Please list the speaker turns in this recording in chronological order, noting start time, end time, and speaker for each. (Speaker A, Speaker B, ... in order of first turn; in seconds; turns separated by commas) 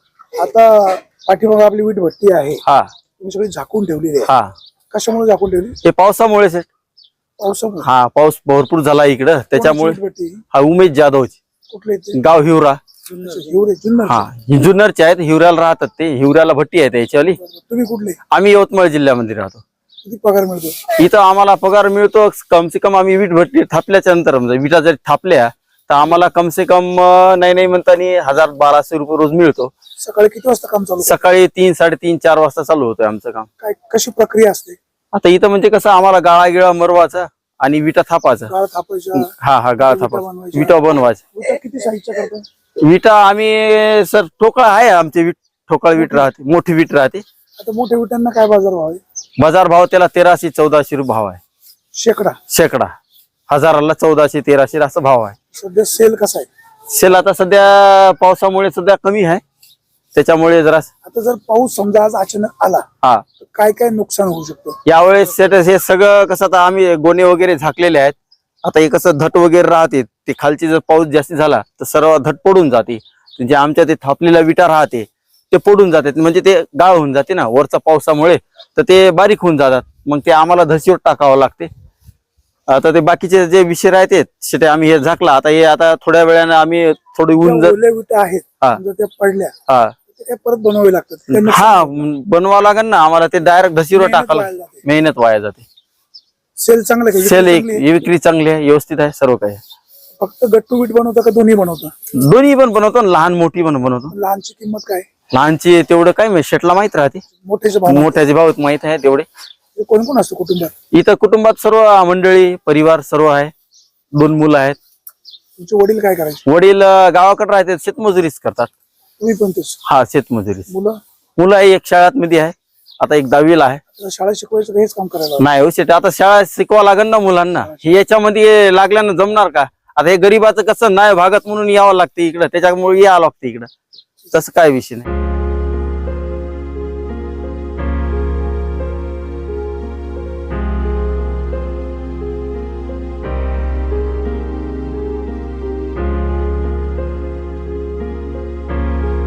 Speaker A: 0.4-2.6, Speaker B: 2.6-2.9, Speaker A: 3.2-4.3, Speaker B: 4.3-4.5, Speaker A: 4.9-5.8, Speaker B: 5.8-6.7, Speaker A: 7.4-7.9, Speaker B: 7.8-10.0, Speaker A: 9.5-10.4, Speaker B: 10.5-11.4, Speaker A: 11.7-12.2, Speaker B: 12.1-12.8, Speaker A: 13.1-14.3, Speaker B: 14.1-17.4, Speaker A: 17.4-18.2, Speaker B: 18.3-19.6, Speaker A: 20.0-21.0, Speaker B: 21.0-29.7, Speaker A: 30.0-31.2, Speaker B: 31.0-33.5, Speaker A: 33.6-34.8, Speaker B: 35.1-38.5, Speaker A: 38.5-39.3, Speaker B: 39.2-41.2, Speaker A: 39.8-42.5, Speaker B: 42.8-47.2, Speaker A: 46.0-46.3, Speaker A: 47.6-49.0, Speaker B: 49.4-51.4, Speaker A: 52.0-52.4, Speaker B: 52.5-52.9, Speaker B: 53.5-55.4, Speaker A: 55.5-56.5, Speaker B: 56.9-59.4, Speaker B: 60.1-60.9, Speaker A: 61.0-62.9, Speaker A: 63.4-64.8, Speaker B: 64.8-81.7, Speaker B: 82.7-87.8, Speaker A: 87.4-89.5, Speaker B: 89.7-89.9, Speaker A: 90.2-92.0, Speaker B: 91.3-95.7, Speaker A: 93.9-94.8, Speaker A: 96.6-97.9, Speaker B: 97.2-99.6, Speaker A: 100.2-101.9, Speaker B: 102.1-104.1, Speaker A: 104.1-105.1, Speaker B: 105.3-107.2, Speaker A: 107.5-108.2, Speaker B: 107.9-109.3, Speaker A: 109.8-110.7, Speaker B: 110.9-113.5, Speaker B: 114.2-114.8, Speaker A: 115.6-116.4, Speaker B: 116.5-118.7, Speaker A: 119.2-119.8, Speaker B: 119.8-120.7, Speaker A: 120.7-121.0, Speaker B: 121.4-123.8, Speaker A: 124.0-125.5, Speaker B: 125.4-133.7, Speaker B: 134.3-135.1